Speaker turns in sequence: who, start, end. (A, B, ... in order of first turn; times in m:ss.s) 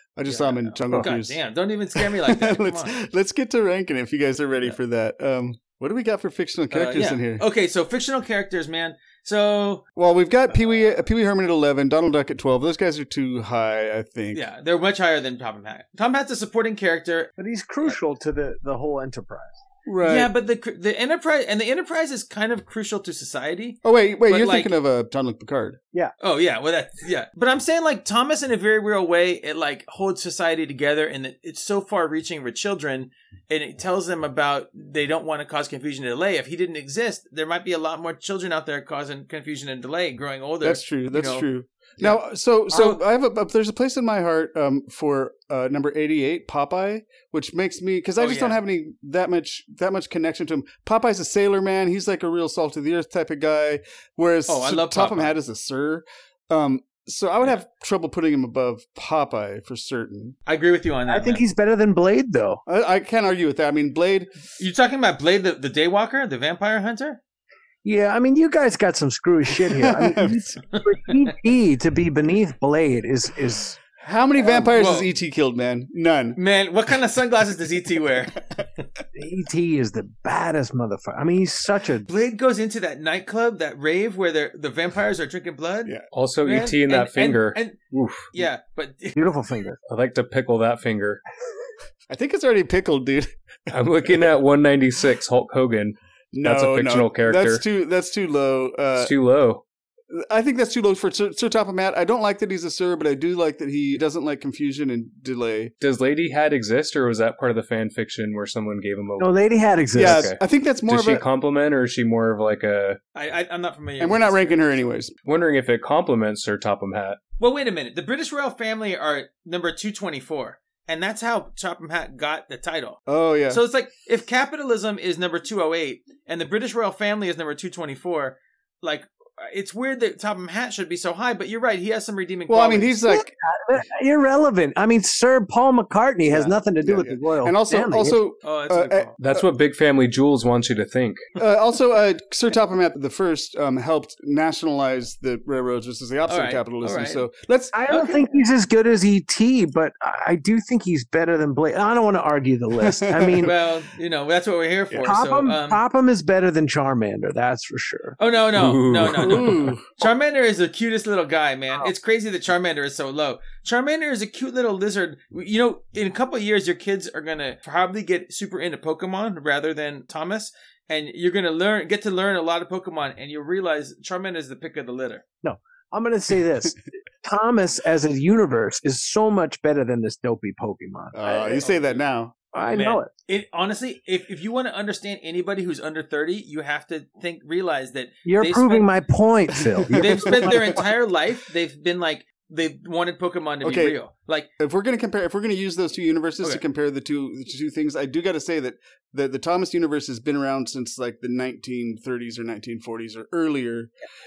0:00.2-0:01.4 A
0:00.3-0:02.9 B
0:01.9-0:07.4 A
0:06.7-0:09.8 B
0:10.0-0:14.4 A
0:14.3-0:17.3 B
0:17.4-0:19.6 C
0:19.8-0:20.3 A
0:20.0-0:24.7 B
0:23.8-0:25.8 A
0:26.2-0:41.5 B
0:40.6-1:00.3 A
0:42.0-0:43.0 B
0:48.2-0:48.6 B
0:54.5-0:55.3 B
1:00.4-1:01.4 B
1:01.1-1:02.6 C
1:02.7-1:04.3 A
1:04.6-1:07.2 B
1:07.8-1:13.8 C
1:09.6-1:10.6 A
1:10.7-1:11.3 B
1:14.0-1:16.4 A
1:14.4-1:14.8 C
1:14.7-1:15.1 B
1:16.4-1:18.9 B
1:19.1-1:22.1 C
1:22.0-1:27.8 B
1:26.1-1:28.3 D
1:28.3-1:29.2 B
1:29.1-1:29.8 C
1:29.9-1:31.2 D
1:32.1-1:33.7 A
1:33.7-1:37.6 D
1:36.3-1:39.1 A
1:39.0-1:39.6 D
1:40.1-1:45.7 A
1:45.8-1:49.3 D
1:49.2-1:50.3 C
1:49.9-1:51.2 A
1:49.9-1:53.0 D
1:53.1-1:54.8 B
1:54.0-1:55.1 A
1:55.2-1:57.2 D
1:57.4-2:13.0 B
2:03.1-2:03.6 A
2:12.5-2:13.3 A
2:13.1-2:18.2 C
2:16.3-2:19.4 A
2:18.4-2:19.2 B
2:19.2-2:21.2 D
2:21.4-2:27.8 A
2:26.3-2:27.3 B
2:27.7-2:33.5 C
2:27.9-2:28.3 B
2:32.8-2:33.5 A
2:33.4-2:35.8 B
2:35.0-2:38.2 C
2:38.2-2:55.2 B
2:38.5-2:39.7 D
2:39.0-2:40.0 A
2:55.4-3:01.6 C
3:01.1-3:02.3 A
3:01.5-3:02.0 B
3:02.5-3:03.1 C
3:02.7-3:08.9 B
3:08.2-3:10.8 C
3:09.8-3:10.8 A
3:09.9-3:14.5 B
3:13.6-3:14.0 A
3:14.6-3:23.9 A